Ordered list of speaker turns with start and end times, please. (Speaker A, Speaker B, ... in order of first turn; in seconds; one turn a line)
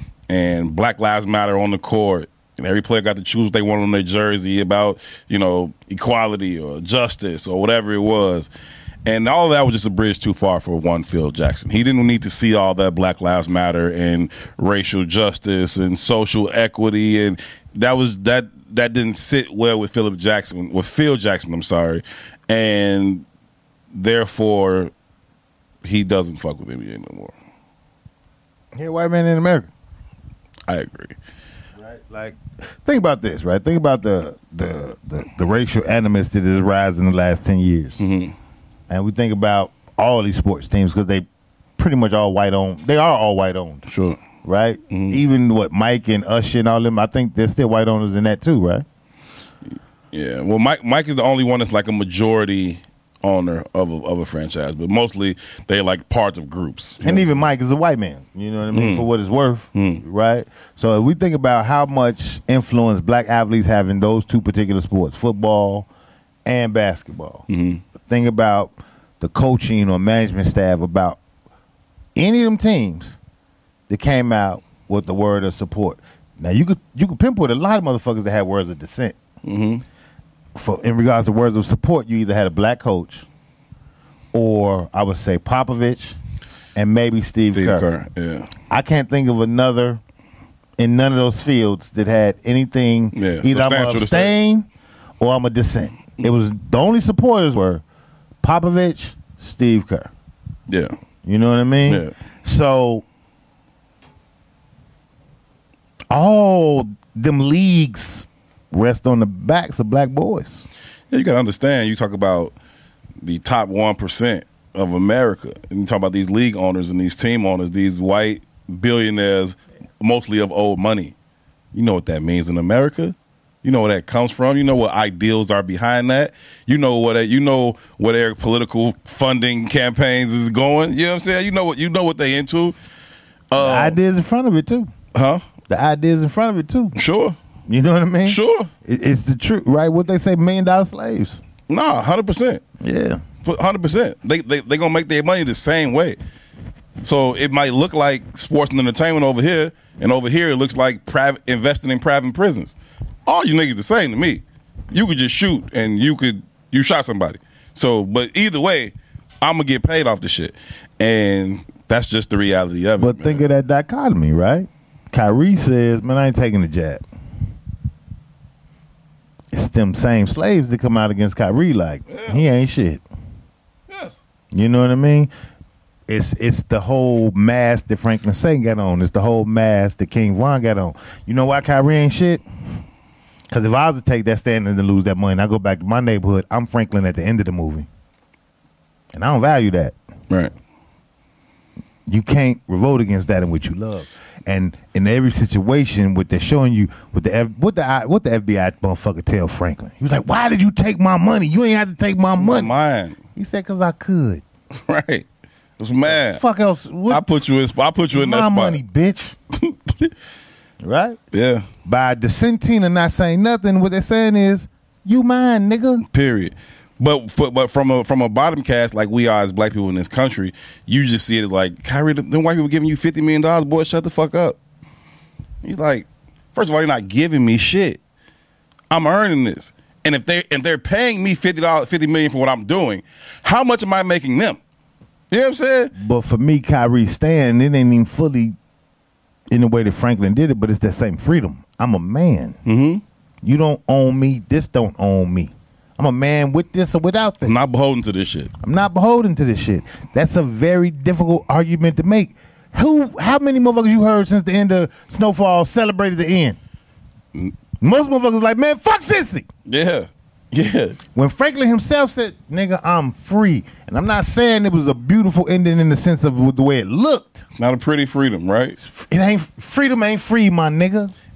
Speaker A: 0.3-8.5
Speaker A: 9.1-23.2
Speaker A: 23.9-24.9
Speaker A: 25.8-27.3
Speaker B: 28.7-29.7
Speaker A: 30.7-31.2
Speaker B: 31.8-38.0
Speaker A: 38.0-38.4
Speaker B: 38.9-41.2
Speaker B: 41.8-43.9
Speaker A: 43.9-44.2
Speaker B: 44.4-48.9
Speaker A: 44.9-45.2
Speaker A: 50.1-57.4
Speaker B: 57.0-65.9
Speaker A: 58.7-59.1
Speaker A: 59.7-60.0
Speaker B: 66.5-67.5
Speaker A: 67.5-67.8
Speaker B: 68.0-71.2
Speaker B: 72.2-73.2
Speaker B: 73.9-79.2
Speaker A: 79.4-79.8
Speaker B: 80.5-83.2
Speaker B: 84.3-86.2
Speaker B: 86.7-87.9
Speaker A: 87.5-88.5
Speaker B: 88.7-90.0
Speaker B: 90.8-94.7
Speaker A: 93.1-94.3
Speaker B: 95.2-97.8
Speaker B: 98.4-100.1
Speaker A: 100.7-101.0
Speaker B: 101.2-103.0
Speaker A: 101.9-102.1
Speaker B: 106.1-110.7
Speaker A: 111.1-112.5
Speaker A: 113.2-121.1
Speaker A: 121.7-132.8
Speaker A: 133.5-134.0
Speaker B: 133.6-134.9
Speaker A: 135.1-135.4
Speaker B: 135.7-136.9
Speaker A: 136.9-137.4
Speaker B: 137.7-141.4
Speaker A: 138.2-138.7
Speaker A: 141.7-142.6
Speaker B: 142.8-143.2
Speaker A: 143.4-146.2
Speaker A: 147.0-163.4
Speaker B: 163.0-167.0
Speaker B: 169.5-173.0
Speaker A: 172.1-172.4
Speaker A: 173.9-174.2
Speaker B: 174.5-175.3
Speaker B: 176.1-182.4
Speaker B: 183.5-187.9
Speaker B: 189.1-189.9
Speaker B: 192.1-202.7
Speaker A: 202.4-203.2
Speaker B: 203.4-204.4
Speaker A: 204.7-205.3
Speaker A: 205.8-206.4
Speaker B: 206.1-207.4
Speaker A: 207.1-208.8
Speaker B: 208.1-209.4
Speaker A: 209.6-210.1
Speaker B: 210.8-211.2
Speaker A: 211.3-211.7
Speaker B: 211.8-216.1
Speaker A: 216.0-224.6
Speaker A: 225.6-228.0
Speaker A: 228.9-234.6
Speaker A: 235.3-235.9
Speaker B: 235.9-238.6
Speaker B: 239.5-242.6
Speaker A: 242.6-243.0
Speaker B: 243.4-247.6
Speaker A: 247.4-248.5
Speaker B: 248.6-256.6
Speaker B: 257.8-259.5
Speaker A: 259.7-261.0
Speaker B: 261.1-267.4
Speaker A: 267.6-268.8
Speaker B: 268.8-271.1